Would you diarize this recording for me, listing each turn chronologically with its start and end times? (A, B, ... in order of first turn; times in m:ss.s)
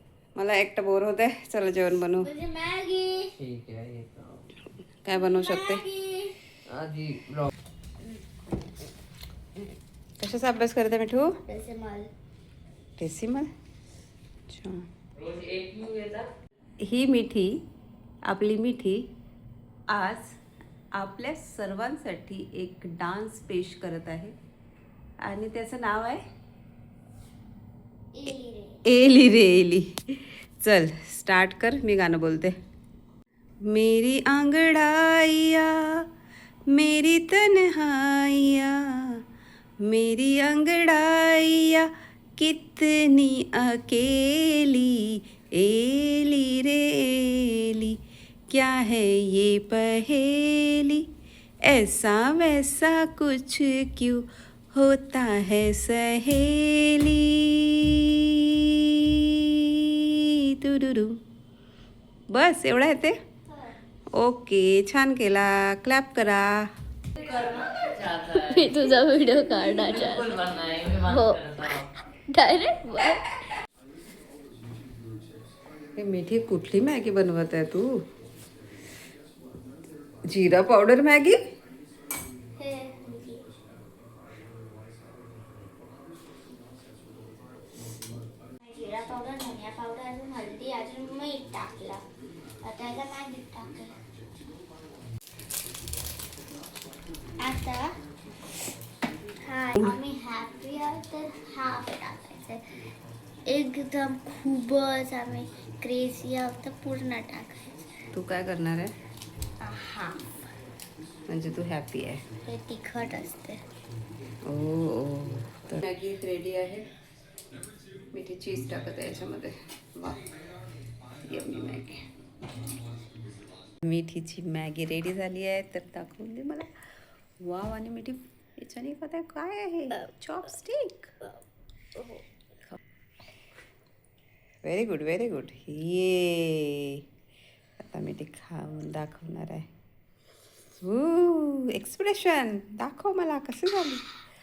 0:00.4-0:02.3 A
0:02.2-0:03.4 B
0:03.3-0:04.5 C
0:05.0-0:05.8 A
0:05.1-0:06.4 B
0:06.7-0:07.5 C
0:10.2-0:11.4 A
0:11.5-0:12.1 B
0:13.0-0:13.5 A
0:14.5-0:14.9 A
0:15.2-0:16.3 C
0:16.8-0:17.6 A
0:18.3-0:19.1 A
0:19.9-0:20.4 A
0:21.0-0:24.4 A
0:25.2-0:26.2 A
0:28.1-0:28.8 B
0:28.8-0:32.6 A
0:33.7-0:36.1 A
0:36.7-0:39.2 A
0:39.8-0:51.1 A
0:51.6-1:01.2 A
1:02.3-1:03.2 A
1:04.1-1:06.7 A
1:07.2-1:11.9 C
1:08.3-1:13.4 B
1:16.0-1:18.0 A
1:20.3-1:21.4 A
1:22.6-1:23.4 B
1:28.6-1:32.0 B
1:32.6-1:34.0 B
1:37.4-1:37.9 B
1:39.4-1:42.8 B
1:43.5-1:48.1 B
1:48.1-1:48.9 A
1:49.6-1:50.2 B
1:51.3-1:52.2 A
1:52.4-1:53.6 B
1:54.4-1:56.9 A
1:58.1-2:00.2 A
2:01.2-2:02.0 A
2:03.8-2:06.8 A
2:07.4-2:11.1 A
2:12.0-2:12.2 B
2:14.6-2:17.0 A
2:17.8-2:19.7 A
2:20.8-2:24.0 A